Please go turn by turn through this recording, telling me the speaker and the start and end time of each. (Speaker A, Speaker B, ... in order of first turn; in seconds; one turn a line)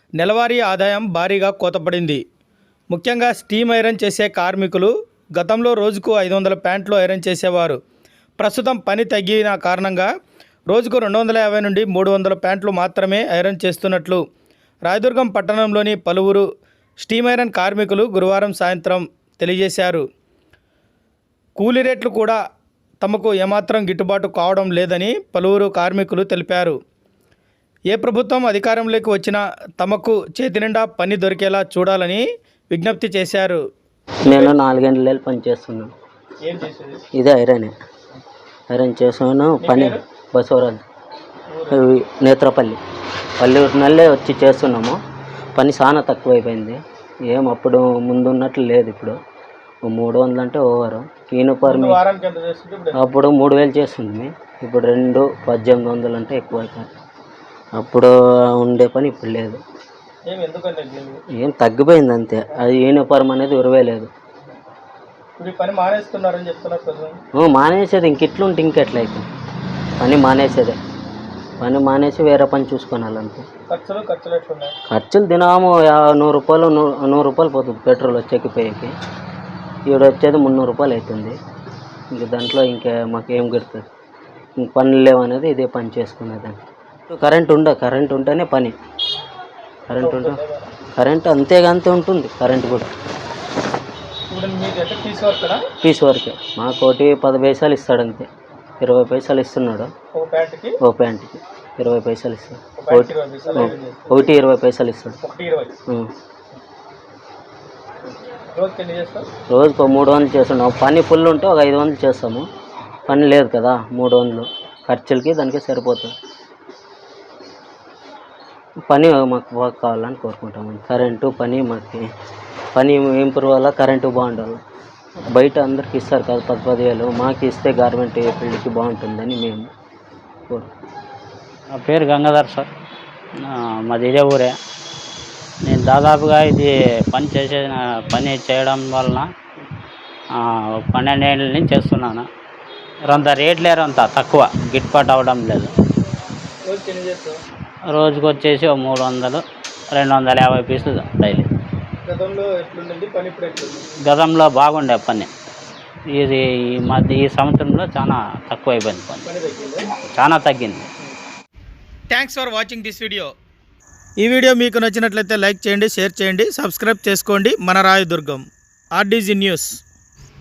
Speaker A: 0.2-2.2
Speaker A: 2.9-7.8
Speaker A: 8.4-10.1
Speaker A: 10.7-14.2
Speaker A: 14.9-16.5
Speaker A: 17.0-20.0
Speaker A: 21.6-22.4
Speaker A: 23.0-26.8
Speaker A: 27.9-33.6
Speaker B: 34.3-35.9
Speaker A: 34.3-34.6
Speaker A: 36.5-37.0
Speaker B: 37.1-37.7
Speaker B: 38.7-40.8
Speaker A: 39.6-40.0
Speaker A: 41.5-41.8
Speaker B: 41.7-42.8
Speaker B: 43.4-45.0
Speaker B: 45.6-49.2
Speaker B: 49.9-52.0
Speaker A: 51.6-53.0
Speaker B: 53.0-56.9
Speaker B: 57.8-59.6
Speaker A: 60.3-61.2
Speaker B: 61.4-64.1
Speaker A: 65.4-67.2
Speaker B: 67.4-69.3
Speaker B: 70.0-70.8
Speaker B: 71.6-73.5
Speaker A: 73.7-74.8
Speaker B: 74.9-78.9
Speaker B: 79.9-81.4
Speaker B: 82.1-83.8
Speaker B: 84.6-86.6
Speaker B: 87.1-88.8
Speaker B: 89.9-90.4
Speaker A: 89.9-90.7
Speaker B: 91.0-92.9
Speaker A: 94.3-95.6
Speaker B: 95.8-98.3
Speaker B: 98.8-99.9
Speaker A: 100.1-100.8
Speaker B: 100.8-105.2
Speaker A: 102.8-104.3
Speaker A: 105.2-105.8
Speaker A: 108.5-109.3
Speaker B: 109.5-112.5
Speaker B: 113.1-116.1
Speaker B: 118.9-122.1
Speaker B: 122.8-124.6
Speaker B: 125.3-129.7
Speaker C: 131.7-132.7
Speaker C: 133.4-134.5
Speaker C: 135.7-139.3
Speaker C: 140.3-142.3
Speaker C: 143.1-145.7
Speaker A: 146.7-147.4
Speaker C: 147.9-151.5
Speaker A: 152.1-153.9
Speaker C: 154.1-155.3
Speaker C: 156.1-159.3
Speaker A: 159.2-159.9
Speaker C: 160.2-160.9
Speaker A: 162.1-163.3
Speaker A: 164.2-168.4
Speaker A: 169.0-169.8